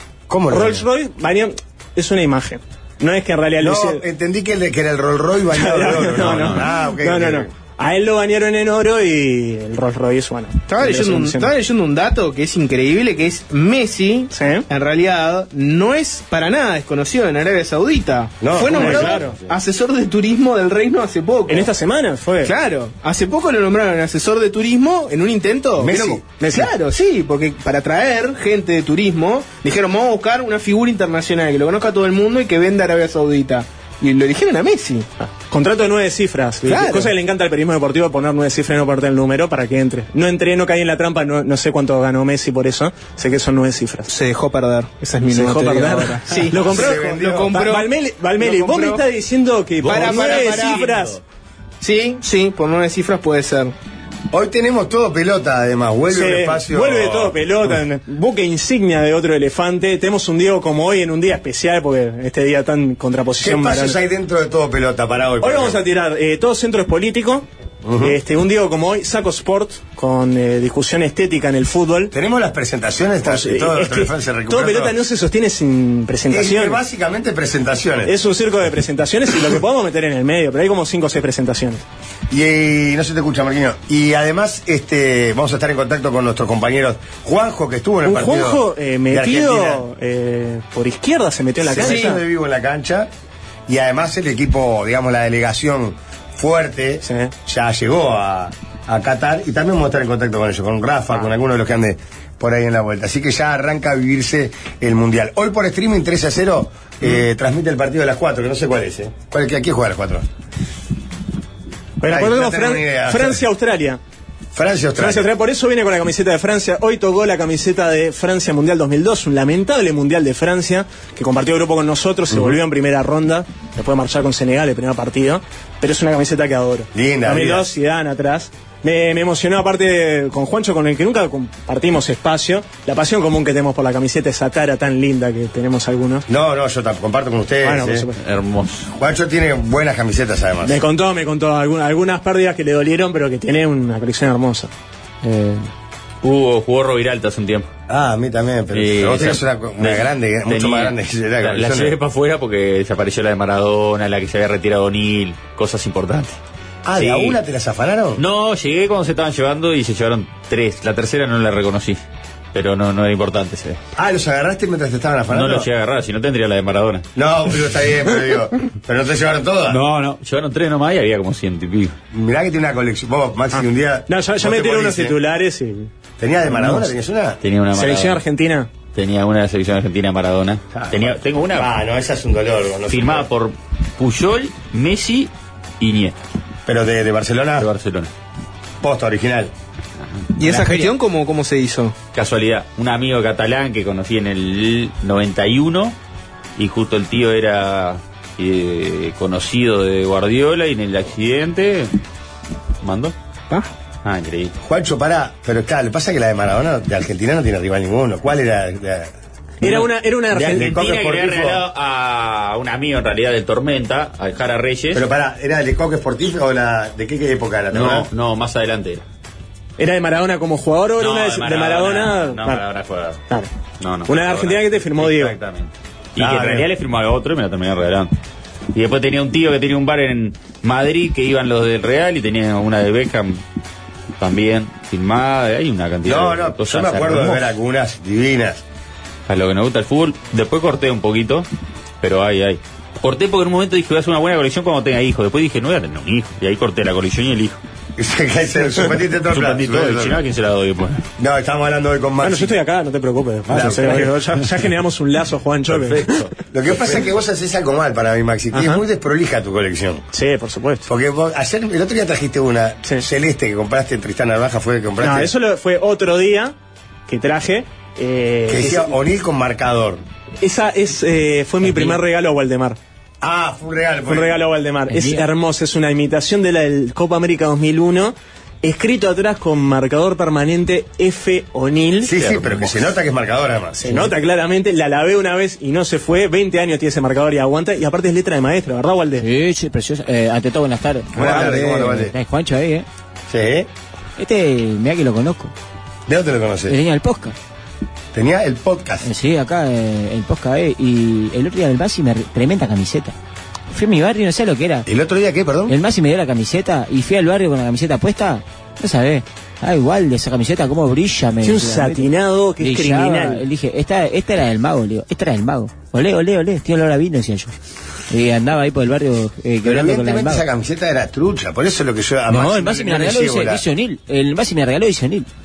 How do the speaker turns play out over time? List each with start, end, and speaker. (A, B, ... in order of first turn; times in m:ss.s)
0:00.3-0:00.8 A
0:00.5-0:04.0 B
0:03.6-0:07.5 A
0:05.5-0:11.5 B
0:06.2-0:06.7 C
0:10.7-0:21.7 D
0:14.3-0:14.7 B
0:18.4-0:19.3 A
0:18.7-0:19.4 B
0:21.5-0:22.5 B
0:22.4-0:35.1 D
0:25.8-0:26.7 A
0:35.2-0:44.1 B
0:36.6-0:37.1 D
0:44.1-0:49.0 D
0:45.3-0:51.2 B
0:46.6-0:47.6 A
0:49.8-0:51.2 C
0:49.9-0:50.8 D
0:51.8-0:53.7 D
0:54.3-0:57.4 A
0:56.1-1:04.0 B
1:03.4-1:05.8 A
1:05.4-1:07.5 B
1:07.8-1:08.2 A
1:08.0-1:12.1 B
1:12.1-1:15.0 A
1:13.2-1:16.8 B
1:16.3-1:18.1 A
1:18.1-1:21.8 B
1:22.3-1:29.8 A
1:28.0-1:32.2 B
1:31.6-1:33.1 A
1:31.8-1:32.1 D
1:33.7-1:50.2 A
1:37.0-1:37.3 B
1:52.0-1:54.0 B
1:52.1-1:53.4 A
1:54.5-1:55.3 A
1:55.0-2:16.3 B
2:02.3-2:02.6 A
2:06.9-2:07.7 A
2:16.3-2:18.0 A
2:17.6-2:18.2 B
2:18.2-2:18.9 C
2:18.9-2:20.8 A
2:20.6-2:24.7 B
2:25.2-2:25.6 B
2:26.2-2:27.7 C
2:27.9-2:32.0 A
2:28.7-2:36.4 C
2:36.8-2:38.2 A
2:37.0-2:37.4 C
2:38.2-2:42.0 C
2:42.5-2:43.8 C
2:44.0-2:45.7 A
2:45.3-2:47.0 C
2:47.2-2:49.8 A
2:49.7-2:51.9 C
2:52.1-2:55.2 A
2:53.5-2:55.9 B
2:56.2-2:57.4 A
2:56.5-2:56.9 B
2:57.4-2:58.2 C
2:57.8-2:58.7 B
2:59.0-3:01.7 C
3:00.7-3:03.3 A
3:02.9-3:06.2 C
3:06.6-3:07.7 A
3:07.6-3:08.1 C
3:08.8-3:09.5 A
3:10.4-3:12.0 D
3:10.4-3:10.9 E
3:12.1-3:16.0 C
3:16.6-3:21.9 C
3:22.8-3:23.1 C
3:24.0-3:24.5 C
3:24.6-3:29.1 A
3:29.6-3:30.8 B
3:29.6-3:35.0 C
3:30.4-3:31.6 A
3:34.9-3:38.1 A
3:37.7-3:39.0 C
3:39.8-3:42.6 B
3:41.0-3:43.2 C
3:43.8-3:48.1 C
3:44.1-3:45.4 B
3:46.2-3:46.7 A
3:48.7-3:53.4 C
3:54.2-3:57.5 C
3:56.0-3:58.6 A
3:59.3-4:01.5 C
4:02.0-4:07.6 C
4:08.0-4:10.2 A
4:09.3-4:11.0 C
4:11.2-4:12.5 A
4:12.2-4:16.2 B
4:13.5-4:14.1 A
4:15.7-4:16.3 C
4:16.5-4:20.0 A
4:18.5-4:18.8 B
4:20.1-4:20.9 B
4:20.9-4:25.3 A
4:25.0-4:26.6 B
4:27.1-4:29.0 B
4:28.5-4:30.0 A
4:30.4-4:32.8 B
4:31.7-4:32.0 E
4:33.2-4:34.4 A
4:34.1-4:42.5 B
4:34.9-4:35.2 E
4:42.0-4:43.8 A
4:43.8-4:49.3 B
4:49.2-4:52.9 E
4:51.1-4:52.1 A
4:51.2-4:51.7 B
4:53.3-4:53.7 A
4:54.2-4:55.5 E
4:56.1-4:56.8 A
4:56.7-4:57.4 E
4:58.1-4:59.1 A
4:59.0-5:03.1 E
5:03.7-5:04.9 E
5:04.9-5:05.8 A
5:05.7-5:17.5 E
5:11.4-5:13.4 B
5:18.1-5:20.4 E
5:19.6-5:23.6 A
5:22.3-5:25.3 E